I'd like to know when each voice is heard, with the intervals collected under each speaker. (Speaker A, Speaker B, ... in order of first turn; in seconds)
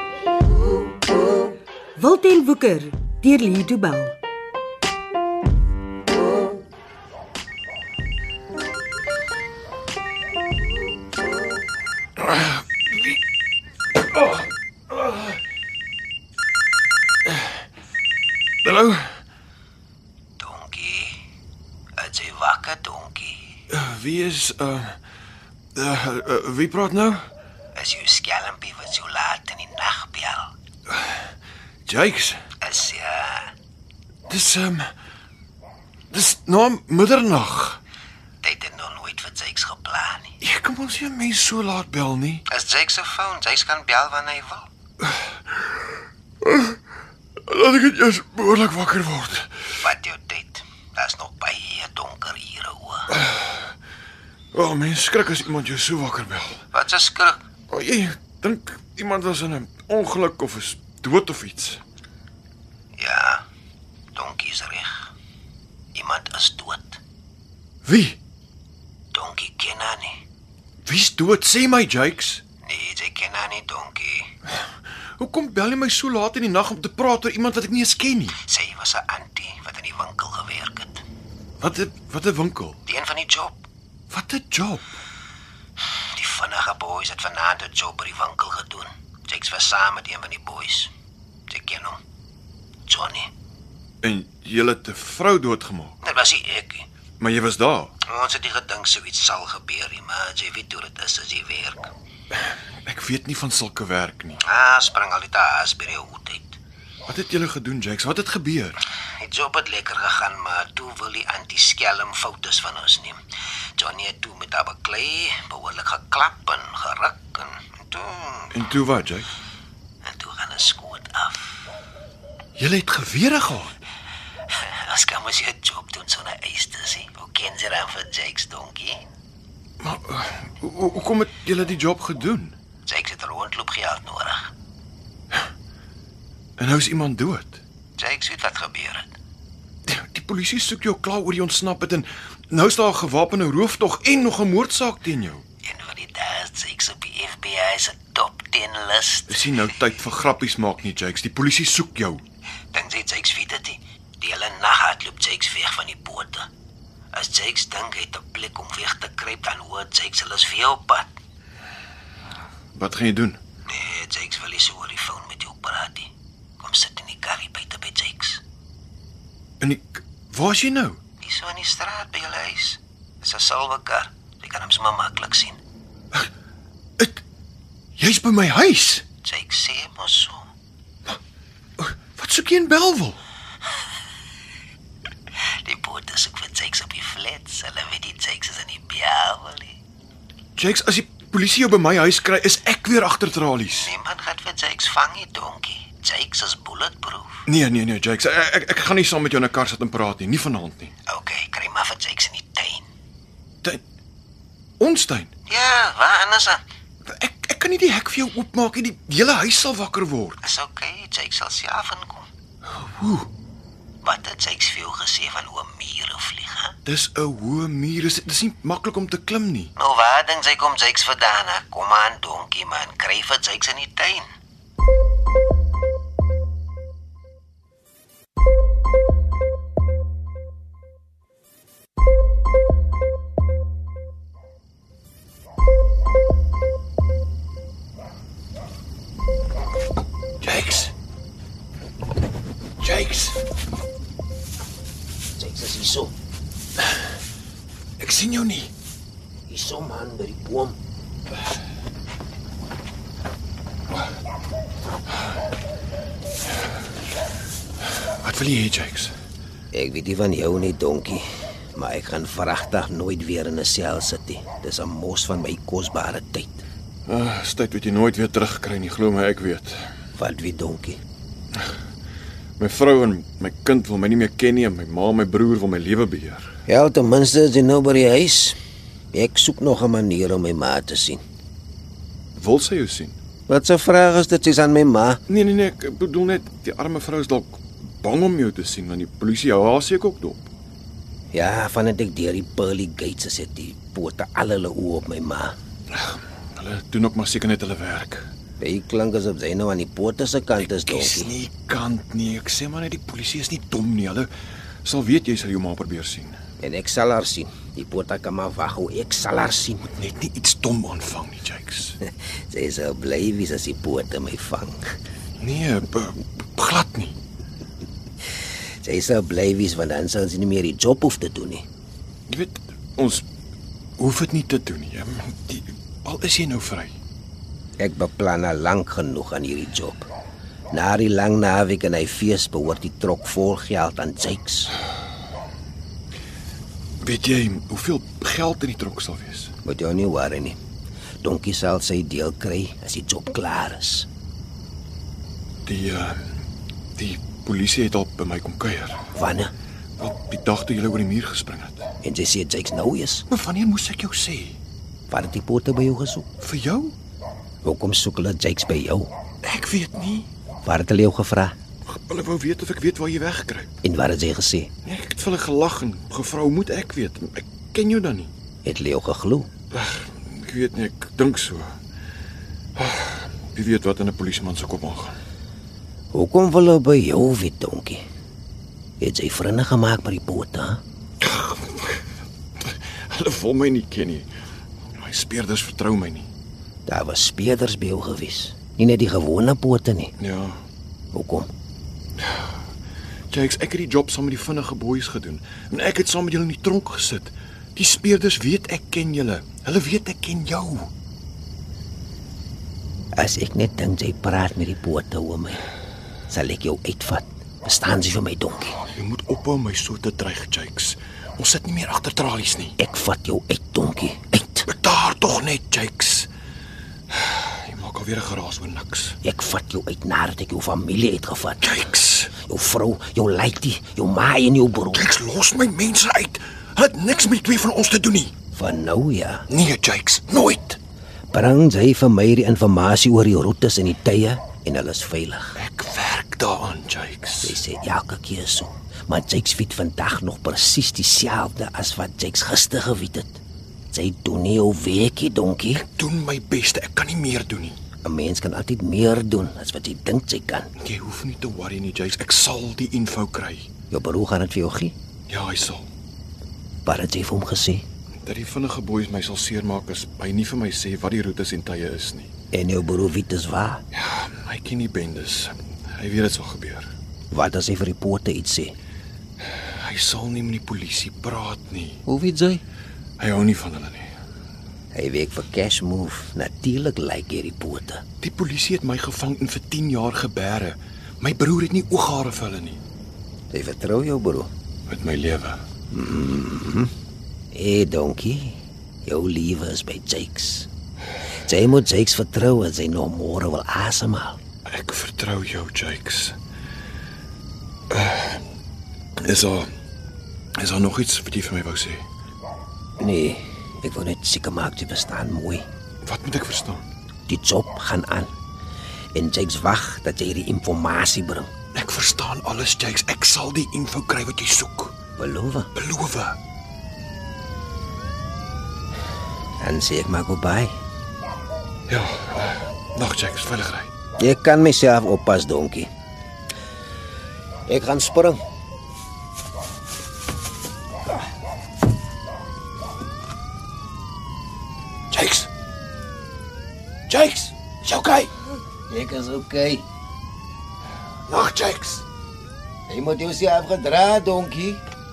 Speaker A: 2.0-4.2
Speaker B: 18.6-19.2, 23.7-25.0, 25.8-27.3, 31.9-32.4, 34.3-34.9, 36.1-37.8, 40.4-42.5, 46.4-46.8, 47.5-49.8, 53.2-53.7, 54.5-56.7, 57.7-61.8, 67.8-68.2, 70.8-72.4, 75.2-78.4, 81.6-82.8, 84.1-85.0, 94.0-96.0, 97.2-97.9, 102.8-104.4, 107.1-108.8, 118.5-119.3, 122.6-123.8, 129.8-132.6, 136.6-137.6, 139.9-145.4, 149.3-152.2, 162.7-163.4, 169.6-171.0, 178.0-179.1, 181.8-183.2, 190.6-193.9, 197.5-200.9, 204.8-205.3, 207.0-210.4, 212.7-213.3, 216.8-219.7, 240.4-240.9, 242.8-243.4, 248.0-248.7, 258.2-259.1, 267.1-269.9, 272.6-276.5, 282.4-283.1, 285.3-290.5, 295.9-298.3, 300.6-304.3, 304.9-306.4, 309.8-312.0, 315.4-317.1, 322.3-323.2, 324.0-326.9, 337.0-339.5, 345.6-346.3, 347.0-349.1, 350.0-351.9, 353.3-354.6, 356.4-357.0, 359.4-360.3, 361.9-363.7, 364.8-368.3, 369.7-371.7, 372.8-375.1, 381.2-382.0, 382.6-384.3, 385.0-386.3, 390.2-390.6, 393.3-400.9, 408.9-412.8, 414.7-416.3, 417.1-419.2, 421.6-422.3, 424.9-428.3, 429.5-430.8, 435.6-437.6, 445.8-447.8, 450.8-453.7, 455.3-455.8, 458.2-462.3, 463.9-466.9, 469.7-472.0, 473.2-474.1, 478.2-482.8, 484.9-485.6, 494.7-496.4, 497.9-498.4, 499.2-499.7, 500.6-502.0, 506.1-506.8, 511.7-515.0, 515.8-516.4, 521.9-523.9, 535.1-535.5, 537.1-538.3, 541.3-542.0
Speaker C: 20.4-21.2, 22.0-23.6, 27.8-30.5, 32.6-33.5, 38.4-40.4, 42.5-44.7, 49.8-53.1, 56.7-57.5, 63.0-63.4, 64.2-65.1, 66.0-67.0, 69.1-70.2, 72.6-74.3, 78.3-81.0, 82.9-83.6, 86.1-90.9, 91.5-92.0, 92.9-93.3, 96.0-96.9, 98.1-101.9, 104.4-106.6, 109.2-113.2, 113.8-118.6, 120.0-121.6, 124.5-129.0, 132.9-134.5, 138.0-139.2, 145.6-149.5, 152.7-156.5, 157.1-161.1, 163.7-168.4, 171.2-175.6, 179.2-180.5, 185.4-189.8, 193.7-197.4, 201.1-202.9, 205.5-206.6, 210.4-212.3, 214.0-216.8, 219.8-224.3, 245.4-246.1, 249.5-250.8, 259.7-266.6, 270.2-271.0, 276.7-278.6, 279.1-281.2, 283.5-285.2, 291.3-295.6, 298.6-301.3, 306.6-309.8, 312.0-314.9, 318.8-321.6, 327.8-330.1, 330.7-334.7, 339.6-340.6, 341.2-344.1, 349.1-349.5, 352.0-353.2, 355.1-356.3, 357.6-359.1, 360.6-361.5, 363.8-364.7, 368.6-369.5, 376.1-378.0, 379.0-380.8, 386.9-390.1, 391.1-391.5, 403.2-405.6, 406.3-408.8, 412.8-414.7, 419.2-421.6, 422.4-425.1, 428.5-429.5, 431.3-435.6, 437.4-443.4, 443.9-445.9, 448.0-450.7, 453.9-454.9, 456.9-457.9, 462.5-463.8, 467.3-468.8, 472.1-472.6, 474.9-478.0, 483.5-484.5, 485.9-486.9, 487.5-490.7, 491.5-494.4, 503.0-505.6, 507.3-508.3, 509.1-511.5, 515.2-515.7, 519.6-520.7, 524.2-525.9, 527.7-528.4, 538.9-539.9, 541.7-542.0, 542.9-544.8